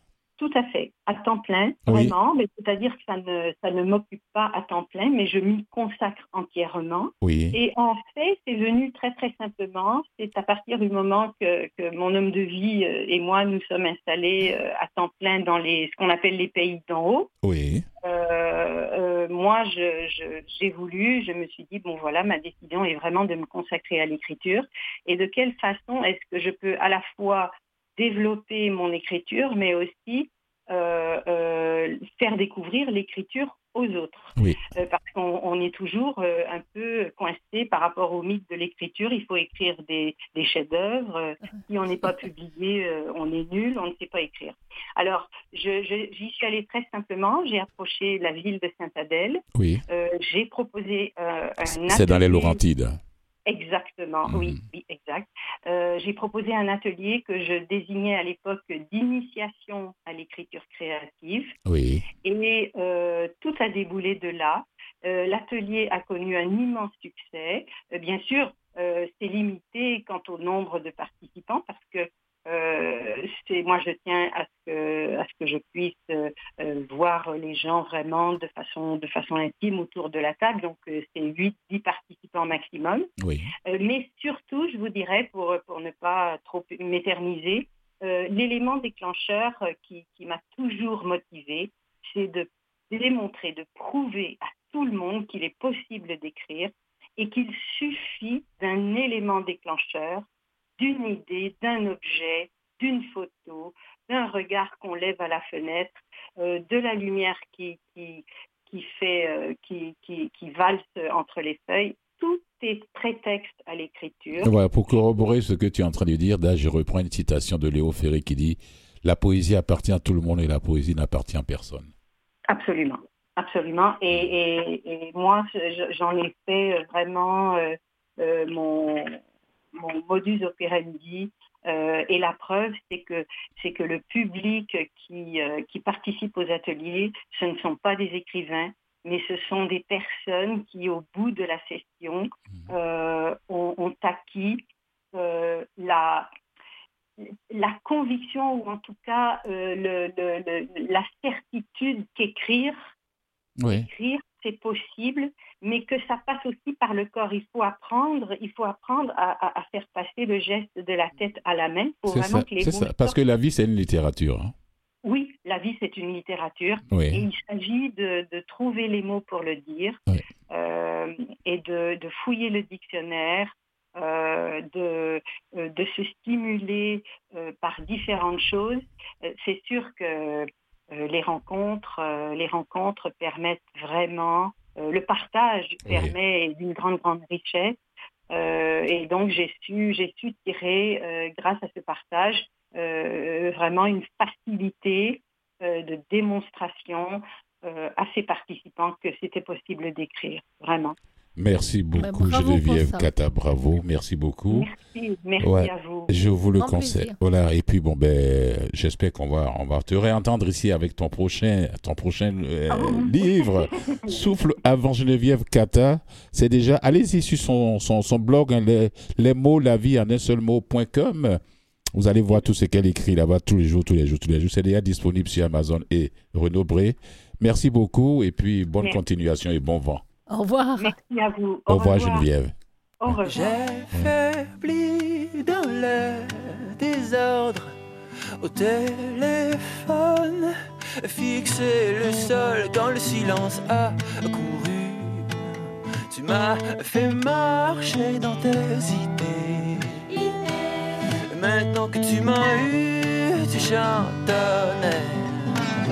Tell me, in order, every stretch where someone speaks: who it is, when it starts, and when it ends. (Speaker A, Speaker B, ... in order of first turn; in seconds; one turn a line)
Speaker A: 0.4-17.3
Speaker B: 1.9-2.1
Speaker B: 7.2-7.6
Speaker B: 17.4-17.9
Speaker A: 18.0-52.6
Speaker B: 34.4-34.6
Speaker B: 49.5-49.8
Speaker B: 51.8-53.0
Speaker A: 53.5-61.5
Speaker B: 54.3-54.6
Speaker B: 61.6-62.0
Speaker A: 62.2-83.1
Speaker B: 83.2-83.5
Speaker A: 83.7-100.2
Speaker A: 100.8-114.5
Speaker B: 114.4-121.9
Speaker A: 122.5-129.2
Speaker A: 129.7-144.6
Speaker A: 145.1-146.3
Speaker A: 147.2-152.9
Speaker B: 153.6-153.9
Speaker A: 153.7-163.2
Speaker B: 162.1-164.5
Speaker A: 165.0-187.8
Speaker B: 166.9-167.2
Speaker B: 185.9-186.1
Speaker A: 188.3-200.9
Speaker B: 201.4-204.7
Speaker C: 202.0-203.1
Speaker A: 204.5-206.1
Speaker B: 205.4-221.4
Speaker C: 206.6-207.2
Speaker A: 212.7-214.2
Speaker B: 221.9-230.0
Speaker C: 230.3-230.9
Speaker A: 230.8-232.3
Speaker B: 231.7-232.5
Speaker A: 233.0-233.5
Speaker D: 233.2-237.8
Speaker D: 238.4-245.4
Speaker D: 246.1-250.1
Speaker D: 251.3-255.7